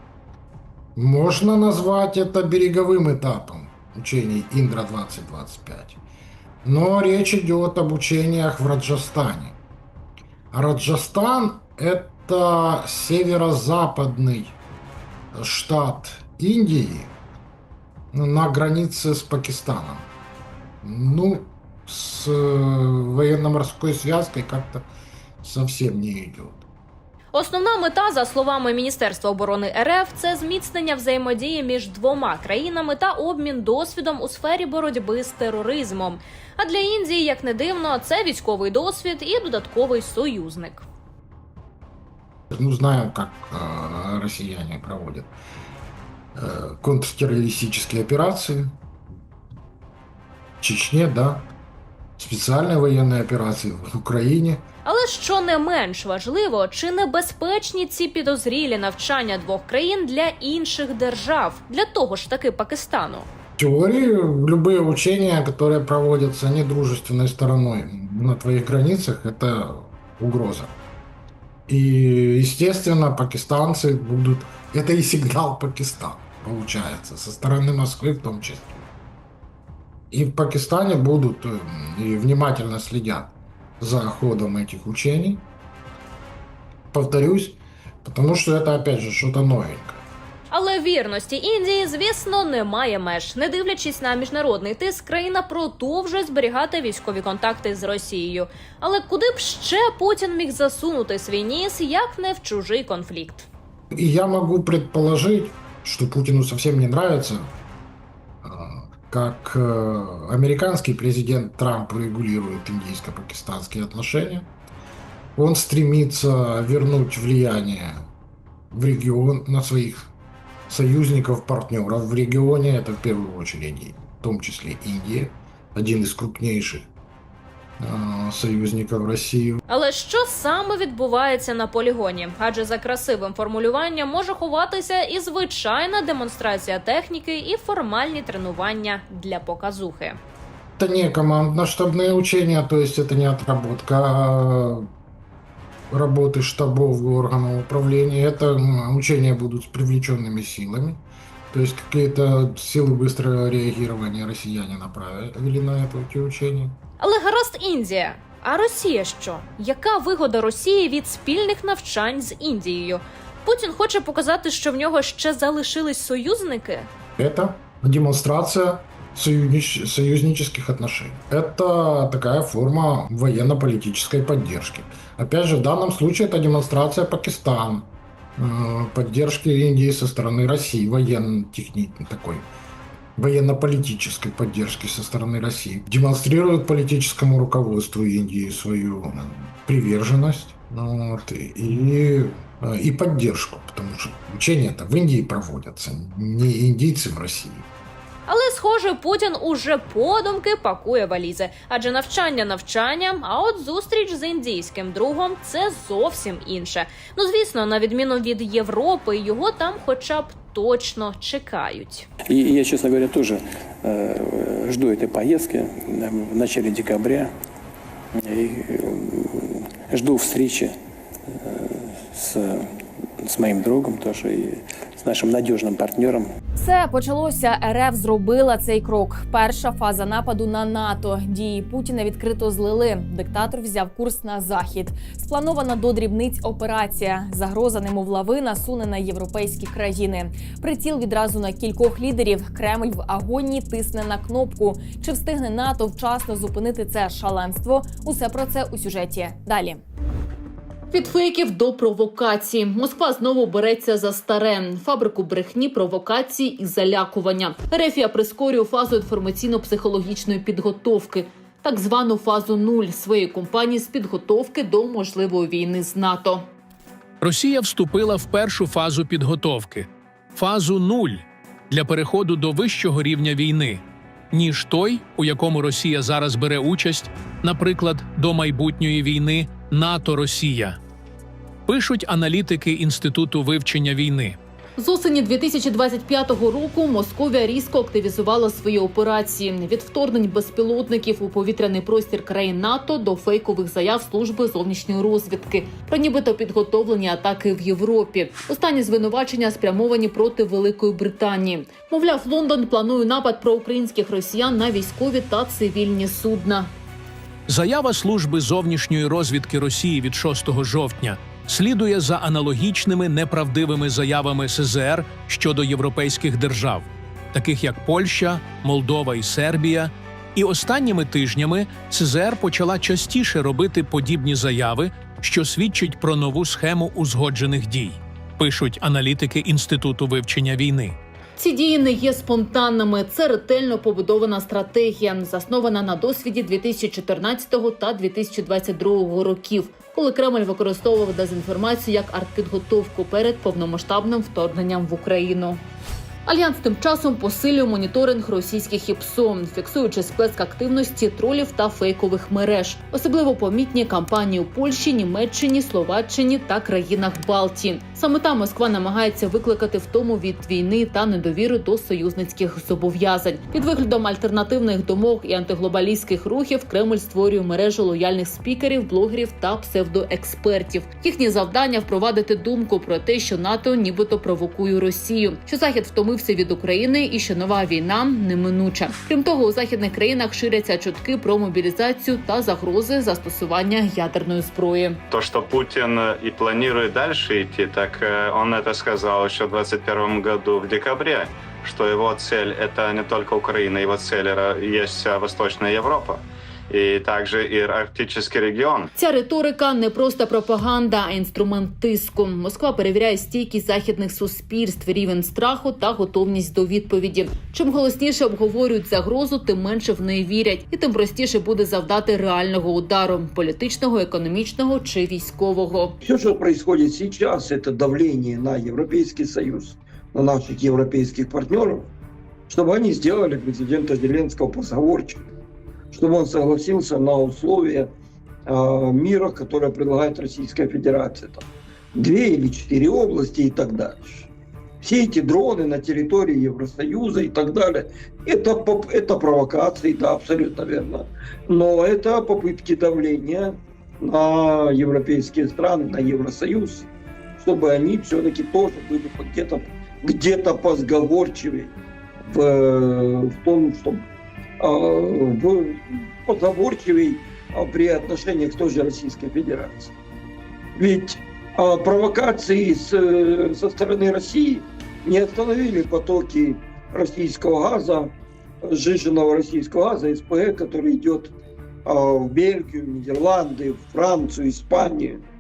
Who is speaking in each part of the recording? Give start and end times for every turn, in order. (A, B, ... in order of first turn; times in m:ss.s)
0:01.0-0:06.0 A
0:06.6-0:09.6 A
0:10.5-0:14.6 A
0:15.3-0:17.1 A
0:18.1-0:20.1 A
0:20.8-0:24.9 A
0:25.4-0:26.6 A
0:27.3-0:40.9 B
0:42.5-0:45.3 A
0:46.4-0:48.8 A
0:50.6-0:51.5 A
0:52.2-0:54.6 A
0:54.8-1:03.3 B
1:03.6-1:10.7 A
1:11.7-1:18.9 A
1:20.1-1:25.4 A
1:26.9-1:30.0 A
1:30.5-1:43.5 B
1:43.9-1:47.5 A
1:48.4-1:54.5 A
1:55.4-1:58.1 A
1:58.7-2:00.1 A
2:00.7-2:06.9 A
2:07.8-2:09.6 A
2:09.7-2:20.2 B
2:20.8-2:24.9 A
2:25.9-2:36.8 A
2:37.0-2:46.9 B
2:47.2-3:02.5 A
3:03.2-3:17.7 A
3:18.3-3:32.1 B
3:32.3-3:37.3 C
3:38.2-3:40.8 C
3:41.3-3:46.3 C
3:46.6-4:09.8 D
4:10.9-4:26.5 E
4:27.2-4:40.8 F
4:41.7-4:44.4 F
4:44.8-5:06.7 E
5:07.5-5:31.0 F
5:31.4-5:45.6 E
5:46.3-6:25.0 E
6:25.1-6:38.9 G
6:39.0-6:56.0 E
6:56.0-7:01.9 H
7:02.5-7:05.2 H
7:05.9-7:07.9 H
7:08.5-7:14.3 H
7:14.8-7:26.9 H
7:27.4-7:31.7 H
7:32.3-7:34.0 H
7:34.6-7:39.9 H
7:40.8-7:51.3 H
7:51.8-7:55.2 H